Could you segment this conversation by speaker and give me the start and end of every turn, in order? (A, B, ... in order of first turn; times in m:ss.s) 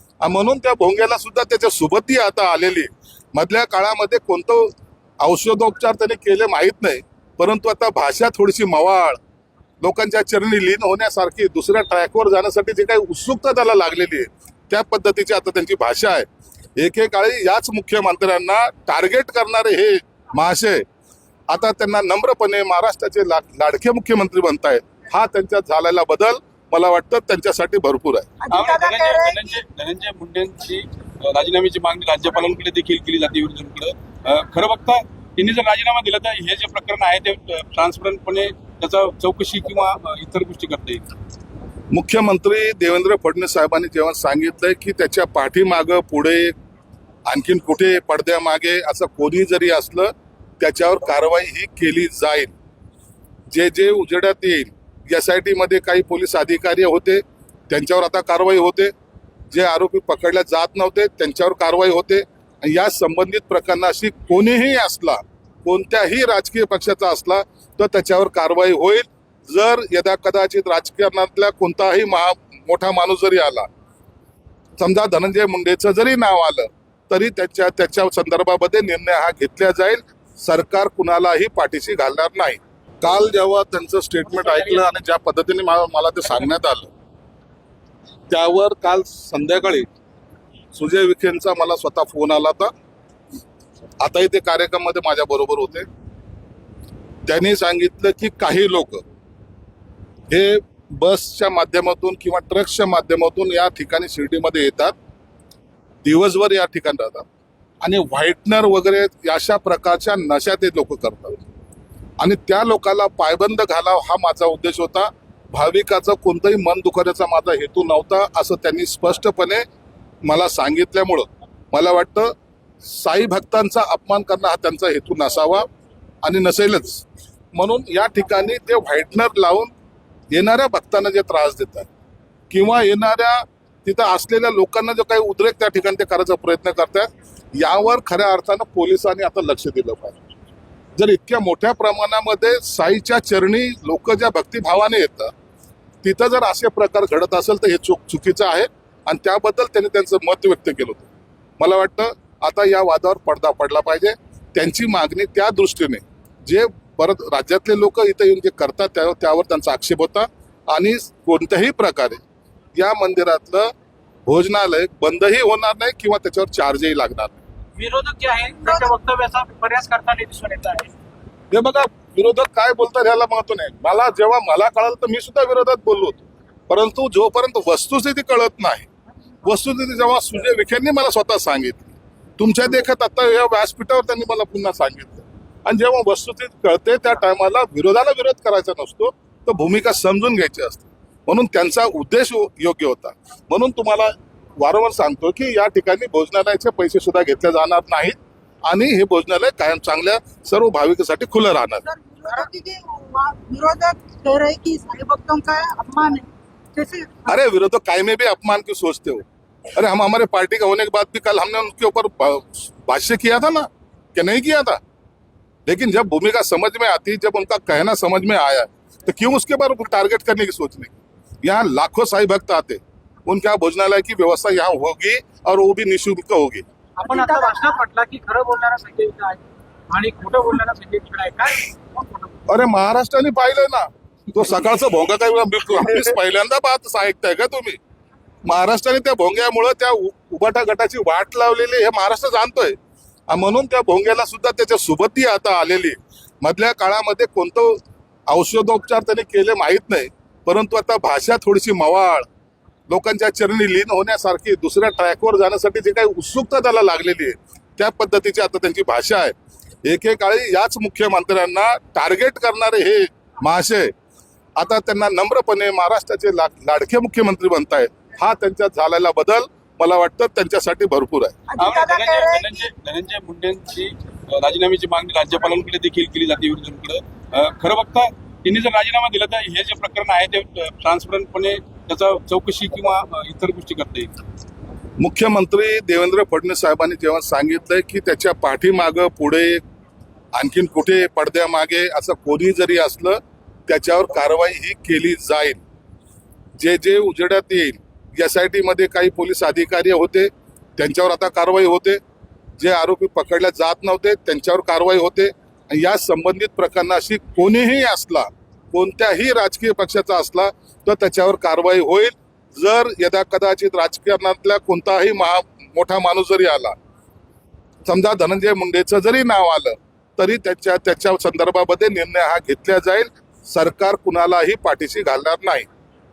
0:00.2-0:09.2 A
0:09.8-0:16.2 A
0:16.8-0:20.8 A
0:21.5-0:28.3 A
0:28.4-0:29.6 B
0:28.5-0:41.1 C
0:41.9-0:46.6 A
0:47.3-0:52.5 A
0:53.5-0:58.9 A
0:59.5-1:13.7 A
1:14.8-1:26.9 A
1:24.3-1:24.8 D
1:28.3-1:29.9 A
1:30.7-1:32.7 A
1:34.0-1:35.9 A
1:37.2-1:39.0 A
1:40.3-1:44.9 A
1:46.0-1:47.3 A
1:47.8-1:51.5 A
1:52.2-1:59.6 A
2:00.2-2:05.6 A
2:06.2-2:09.7 A
2:10.3-2:11.9 A
2:12.5-2:20.2 A
2:21.0-2:25.3 A
2:26.0-2:42.2 A
2:42.8-2:43.7 A
2:44.3-2:47.4 A
2:47.8-2:50.9 D
2:48.6-2:48.9 B
2:51.5-2:58.9 A
2:59.4-3:21.8 A
3:21.8-3:27.4 B
3:27.3-3:34.8 A
3:35.6-3:46.6 A
3:47.0-3:52.3 D
3:47.0-3:47.7 B
3:52.5-3:57.8 A
3:58.4-4:02.8 A
4:03.3-4:12.2 A
4:12.9-4:19.3 A
4:19.8-4:23.9 A
4:24.6-4:31.4 A
4:31.5-4:32.7 B
4:31.6-4:44.2 C
4:45.0-4:49.6 A
4:50.3-4:55.6 A
4:56.6-5:02.0 A
5:02.6-5:16.8 A
5:17.8-5:25.7 A